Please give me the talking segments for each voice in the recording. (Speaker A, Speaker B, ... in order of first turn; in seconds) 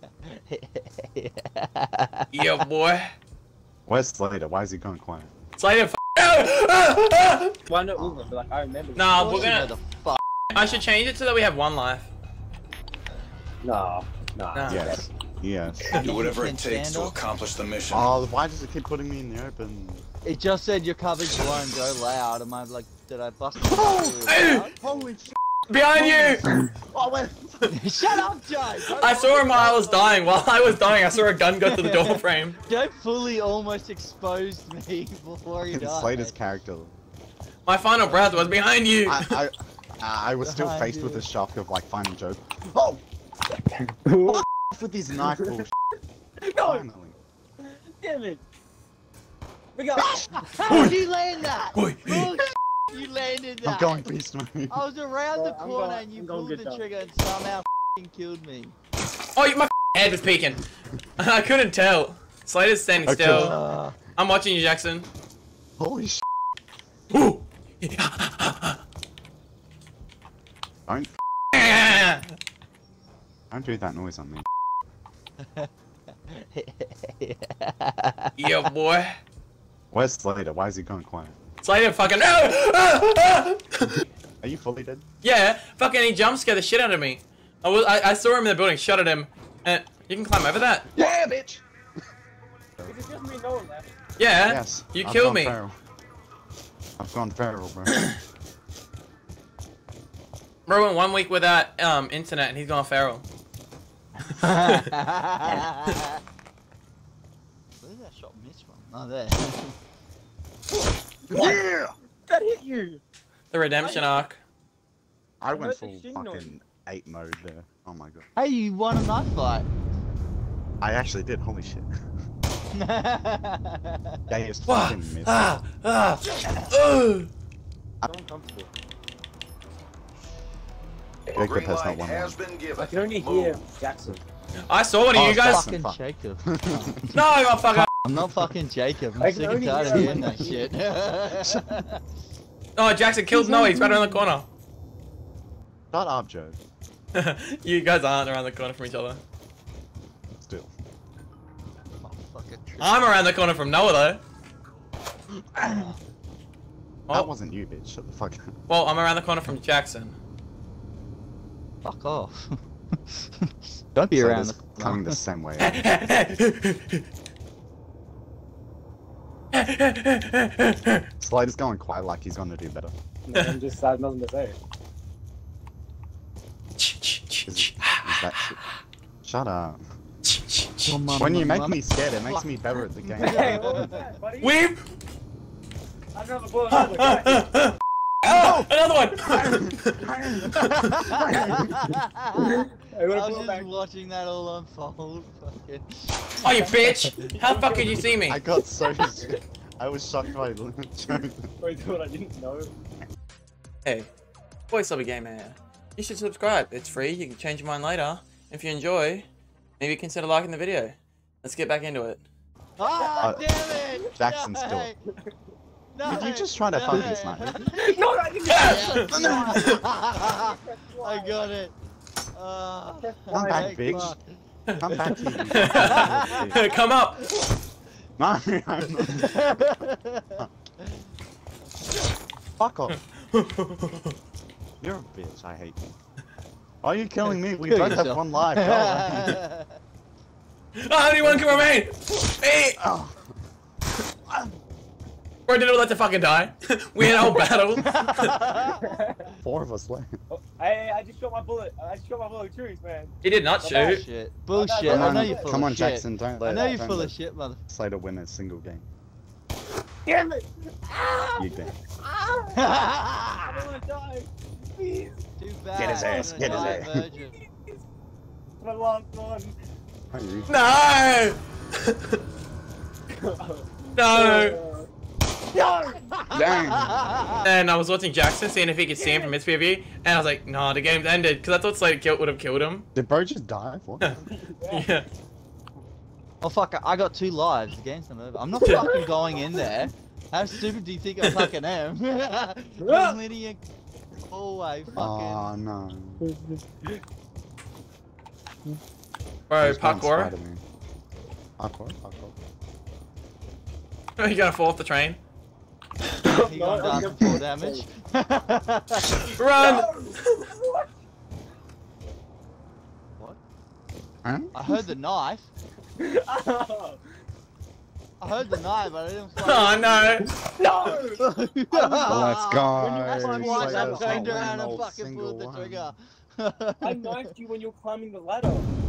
Speaker A: 0.2-2.3, 9.2-10.2, 15.9-17.2, 20.2-25.1, 27.7-29.7, 31.7-36.4, 40.4-41.3, 50.0-54.0, 54.7-58.8, 63.2-64.0, 75.4-75.7, 76.3-78.7, 104.4-106.2, 107.8-109.8, 118.4-119.7, 122.7-124.2, 135.2-142.0, 152.0-153.1, 161.8-165.2, 180.9-182.5, 183.0-184.1, 190.5-196.2, 212.8-215.0, 215.9-217.8, 218.5-221.7, 222.3-224.2, 225.0-226.4, 229.2-230.4, 237.3-239.8, 247.8-248.9, 253.7-257.6, 262.6-263.6, 265.4-267.4, 276.2-277.4, 286.4-293.6, 294.3-295.5, 306.4-309.2, 314.5-315.5, 318.2-320.3, 321.2-327.2
Speaker B: 2.3-3.1, 5.6-7.5, 9.0-9.7, 10.5-12.1, 14.5-15.1, 24.3-24.7, 25.7-26.5, 28.9-32.6, 37.7-39.4, 50.7-51.0, 51.8-52.4, 59.4-60.6, 61.2-63.6, 64.2-65.1, 67.1-68.8, 71.5-72.2, 78.4-79.2, 81.6-84.0, 85.2-90.9, 94.2-95.6, 100.7-103.2, 113.5-114.4, 124.7-127.3, 134.6-135.7, 137.1-137.9, 142.8-144.5, 147.1-149.2, 152.8-154.2, 158.7-160.2, 165.6-167.0, 169.5-171.1, 176.8-178.3, 180.2-181.2, 184.4-184.8, 186.7-190.9, 196.4-198.4, 203.8-204.1, 204.7-209.3, 209.8-212.2, 218.5-219.8, 224.7-227.2, 232.9-234.1, 240.8-242.8, 245.5-248.3, 253.2-254.1, 270.5-272.2, 273.9-274.6, 277.4-282.9, 284.7-285.1, 288.6-289.0, 291.2-291.5, 299.5-300.3, 304.2-305.2, 309.4-310.3, 319.4-320.3
Speaker C: 3.9-5.3, 14.7-16.0, 17.9-20.1, 23.7-24.2, 24.8-25.4, 26.0-27.6, 35.7-37.0, 39.1-43.0, 44.3-45.7, 46.6-47.2, 53.6-54.8, 63.1-63.6, 65.8-66.2, 73.5-74.5, 79.9-81.4, 84.4-85.0, 90.9-91.6, 94.5-95.7, 97.0-98.0, 115.4-118.3, 120.8-121.9, 124.3-125.5, 131.3-132.4, 135.1-137.0, 141.4-141.8, 145.9-146.6, 150.4-150.7, 157.1-158.5, 164.1-165.8, 171.2-172.9, 177.5-178.6, 179.2-179.8, 181.1-183.9, 188.3-188.7, 191.3-191.5, 198.3-201.5, 214.1-214.9, 216.0-217.6, 219.1-219.6, 223.3-224.2, 224.8-226.6, 228.2-229.6, 232.6-233.0, 234.8-235.9, 236.8-239.4, 241.3-241.7, 242.8-243.3, 249.4-250.2, 254.8-257.2, 257.7-258.9, 261.4-261.8, 265.8-267.0, 270.1-270.5, 276.3-277.0, 282.9-284.2, 295.0-296.3, 299.6-300.6, 301.6-302.4, 314.2-314.5, 322.0-325.9
Speaker D: 7.7-9.6, 13.6-15.1, 29.1-30.4, 44.0-44.5, 46.5-46.9, 47.6-48.4, 49.8-50.3, 55.3-56.9, 92.9-93.9, 111.3-111.7, 112.3-113.0, 113.8-114.2, 115.5-116.5, 128.1-128.7, 132.8-134.2, 139.2-140.7, 143.5-144.0, 173.3-174.6, 183.2-184.6, 186.1-187.5, 189.3-190.4, 191.2-193.7, 196.4-198.1, 199.1-199.3, 201.6-202.7, 217.7-221.5, 223.0-224.1, 248.8-249.3, 250.3-254.0, 254.5-255.5, 260.1-262.8, 263.4-265.2, 265.9-267.8, 268.6-269.6, 273.2-274.9, 275.5-276.1, 279.0-279.3, 284.3-284.9, 288.7-289.0, 292.8-293.2, 296.2-297.0, 306.2-307.9, 309.6-310.9, 316.0-317.0, 320.5-324.6, 326.8-328.7
Speaker E: 15.9-18.1, 111.4-111.8, 131.3-133.6, 265.8-266.6